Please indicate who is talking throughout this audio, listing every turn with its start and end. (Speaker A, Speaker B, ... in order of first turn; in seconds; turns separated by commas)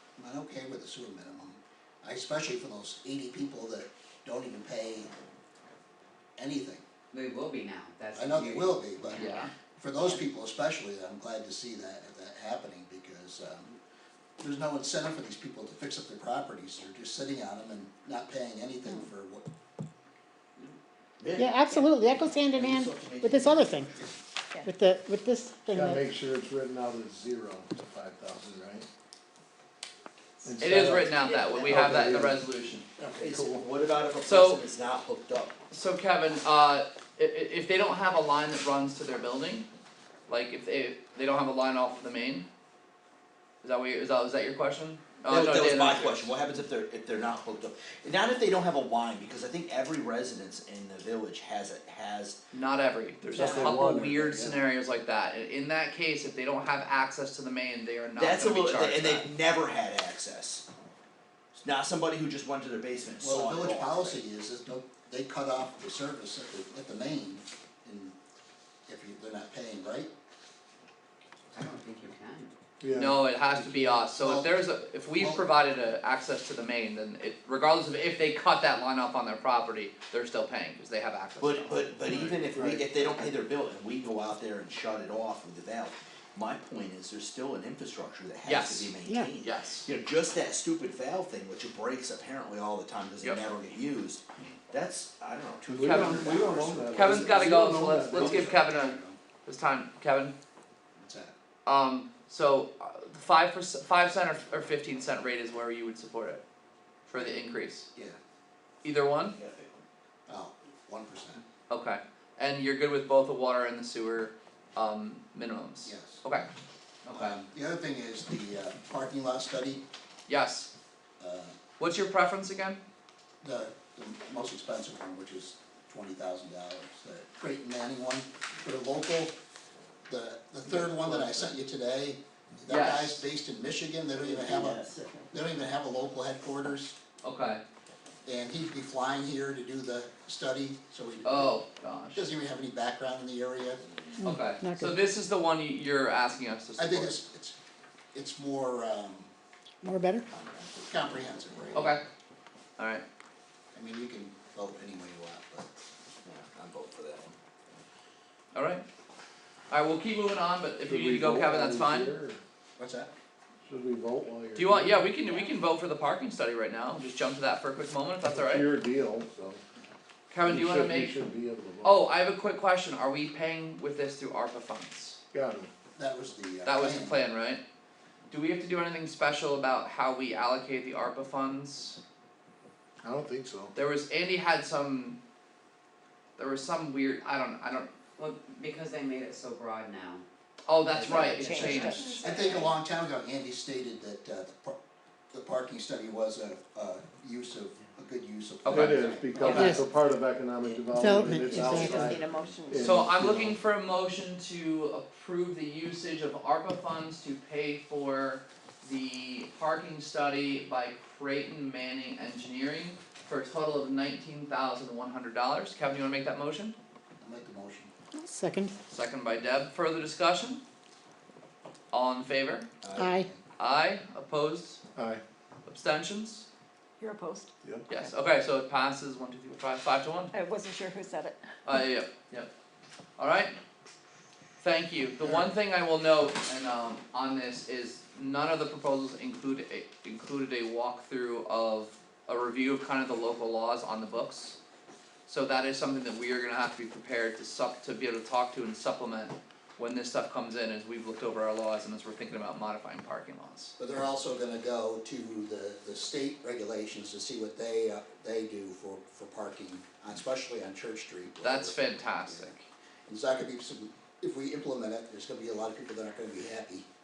Speaker A: 0.2-5.1, Speaker A: 6.4-6.8, Speaker B: 7.1-10.2, Speaker A: 8.1-9.2, Speaker C: 9.2-9.5, Speaker A: 9.8-13.7, Speaker A: 14.4-19.5, Speaker D: 21.2-21.5, Speaker E: 21.4-24.0, Speaker F: 21.6-21.9, Speaker D: 22.5-24.1, Speaker E: 24.6-26.1, Speaker G: 25.7-28.9, Speaker G: 30.4-32.4, Speaker C: 30.6-32.9, Speaker D: 31.2-32.0, Speaker A: 33.0-33.3, Speaker G: 33.2-33.6, Speaker D: 33.2-35.5, Speaker C: 34.2-34.6, Speaker C: 35.7-39.7, Speaker C: 40.3-42.5, Speaker C: 43.6-46.3, Speaker D: 45.3-52.4, Speaker C: 52.5-59.3, Speaker G: 53.3-54.3, Speaker F: 53.4-53.7, Speaker A: 53.5-54.6, Speaker D: 58.2-60.7, Speaker D: 61.6-64.2, Speaker A: 63.2-68.2, Speaker A: 68.9-70.1, Speaker B: 71.5-72.5, Speaker G: 72.8-73.2, Speaker C: 72.9-81.9, Speaker A: 73.5-74.6, Speaker A: 75.2-75.5, Speaker D: 81.4-97.5, Speaker G: 82.5-82.8, Speaker C: 88.5-89.9, Speaker G: 95.7-98.5, Speaker C: 95.8-96.3, Speaker C: 97.0-100.4, Speaker A: 98.0-99.2, Speaker A: 101.0-101.3, Speaker C: 101.7-106.4, Speaker C: 107.1-107.9, Speaker C: 108.8-109.4, Speaker D: 109.3-109.8, Speaker A: 110.3-111.4, Speaker C: 111.7-116.5, Speaker A: 115.8-116.2, Speaker C: 117.0-117.4, Speaker A: 117.1-119.8, Speaker C: 120.3-120.7, Speaker A: 121.2-121.6, Speaker C: 121.8-122.8, Speaker A: 123.4-129.4, Speaker A: 130.1-137.0, Speaker C: 132.7-133.2, Speaker D: 134.2-135.0, Speaker C: 137.2-137.6, Speaker A: 138.2-141.6, Speaker C: 141.2-142.3, Speaker A: 142.1-143.8, Speaker D: 143.8-144.2, Speaker E: 144.2-145.0, Speaker C: 144.2-147.2, Speaker A: 146.8-147.6, Speaker A: 148.1-149.3, Speaker E: 149.8-150.2, Speaker D: 150.3-151.6, Speaker A: 150.8-151.9, Speaker C: 151.7-152.0, Speaker C: 152.8-153.0, Speaker A: 153.7-155.7, Speaker D: 156.2-157.3, Speaker C: 158.5-158.8, Speaker C: 159.7-162.1, Speaker G: 160.8-162.4, Speaker A: 162.8-163.1, Speaker G: 163.7-165.1, Speaker C: 164.6-168.7, Speaker G: 168.2-169.6, Speaker C: 170.3-171.2, Speaker G: 170.4-172.1, Speaker C: 171.8-175.2, Speaker G: 175.3-175.7, Speaker A: 175.9-177.2, Speaker C: 176.6-177.6, Speaker C: 178.3-182.0, Speaker G: 183.0-183.7, Speaker C: 183.8-185.2, Speaker C: 186.4-187.9, Speaker B: 188.2-190.2, Speaker C: 190.7-192.2, Speaker B: 190.9-192.2, Speaker F: 191.2-192.7, Speaker A: 192.2-194.8, Speaker A: 195.3-199.5, Speaker C: 198.6-199.8, Speaker G: 198.7-203.6, Speaker F: 199.4-199.8, Speaker E: 199.6-199.9, Speaker E: 200.6-202.2, Speaker F: 201.5-203.0, Speaker C: 202.8-216.8, Speaker A: 217.2-217.9, Speaker E: 218.1-218.7, Speaker C: 218.9-220.6, Speaker C: 221.9-222.7, Speaker A: 222.8-223.4, Speaker E: 222.9-223.3, Speaker C: 223.6-224.8, Speaker G: 224.9-225.2, Speaker C: 225.7-226.5, Speaker F: 227.0-227.5, Speaker C: 227.9-230.3, Speaker F: 230.3-231.4, Speaker C: 231.6-232.5, Speaker C: 233.2-233.6, Speaker C: 234.6-244.6, Speaker C: 245.3-253.7, Speaker A: 253.8-262.5, Speaker C: 261.4-262.7, Speaker A: 263.1-266.9